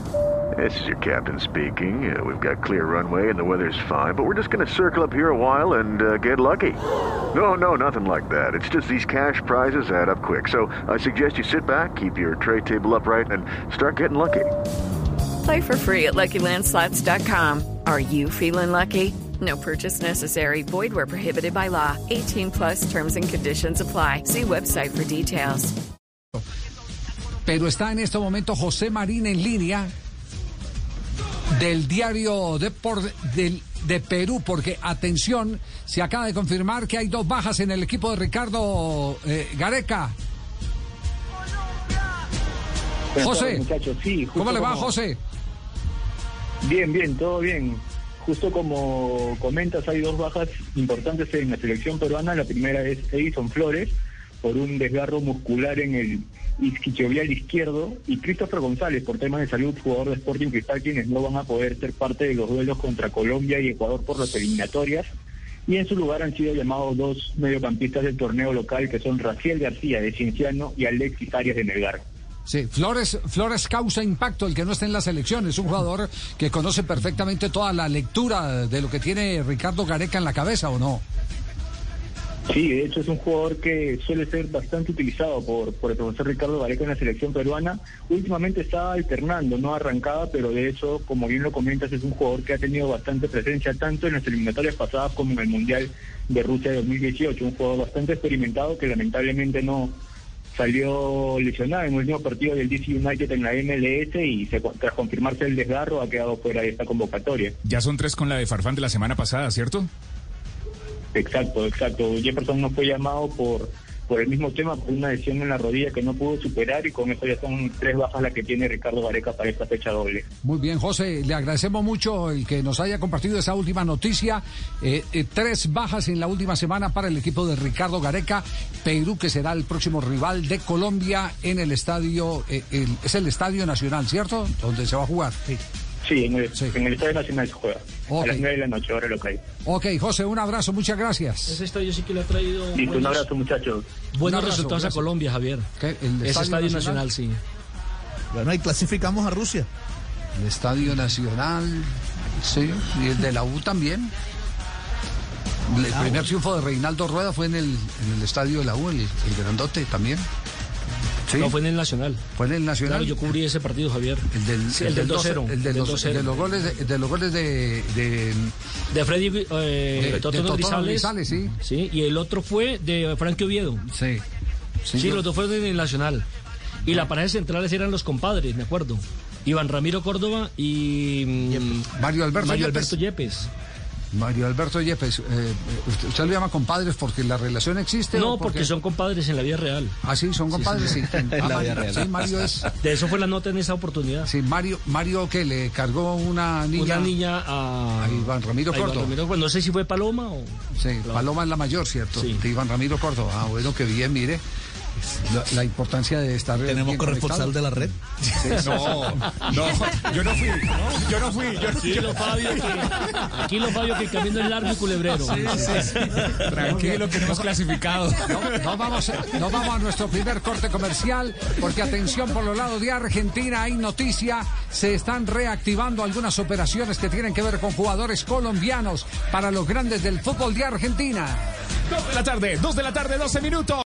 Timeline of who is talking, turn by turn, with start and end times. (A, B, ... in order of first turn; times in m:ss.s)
0:00.6-0:06.8 A
0:07.3-0:14.5 A
0:15.4-0:25.7 B
0:27.5-0:29.9 C
0:31.6-0:40.2 C
0:43.1-0:44.9 D
0:43.2-0:43.6 C
0:44.4-0:45.2 C
0:46.6-1:05.1 D
1:05.7-1:12.0 D
1:12.5-1:21.0 C
1:22.5-1:40.0 D
1:40.5-1:47.6 D
1:47.6-1:49.9 E
1:51.1-2:00.2 D
2:00.4-2:15.6 C
2:16.0-2:19.4 D
2:18.1-2:18.5 C
2:19.6-2:21.6 C
2:21.5-2:23.3 F
2:22.7-2:23.9 D
2:24.1-2:25.7 F
2:24.2-2:25.0 C
2:25.8-2:27.1 C
2:26.2-2:27.4 F
2:28.3-2:29.7 G
2:30.4-2:34.1 C
2:35.7-2:40.2 C
2:35.9-2:36.3 G
2:41.3-2:41.5 C
2:41.3-2:42.2 F
2:42.4-2:43.2 C
2:42.8-2:46.4 F
2:44.3-2:48.5 C
2:48.9-2:53.9 F
2:50.0-2:51.6 C
2:53.9-2:54.2 C
2:54.8-2:55.2 C
2:54.9-2:56.2 F
2:56.8-3:03.5 F
3:01.5-3:01.8 G
3:01.9-3:03.0 C
3:04.1-3:08.7 C
3:08.1-3:10.0 F
3:10.0-3:12.7 C
3:10.5-3:11.0 F
3:11.3-3:12.5 G
3:12.8-3:14.3 F
3:14.2-3:17.1 C
3:16.8-3:21.3 F
3:18.0-3:19.2 C
3:20.8-3:24.4 C
3:22.2-3:22.4 F
3:25.0-3:27.6 C
3:26.6-3:28.0 G
3:28.4-3:29.3 C
3:28.6-3:32.5 E
3:31.8-3:36.4 F
3:35.1-3:38.5 E
3:36.7-3:37.0 C
3:38.3-3:51.5 C
3:51.9-3:53.8 E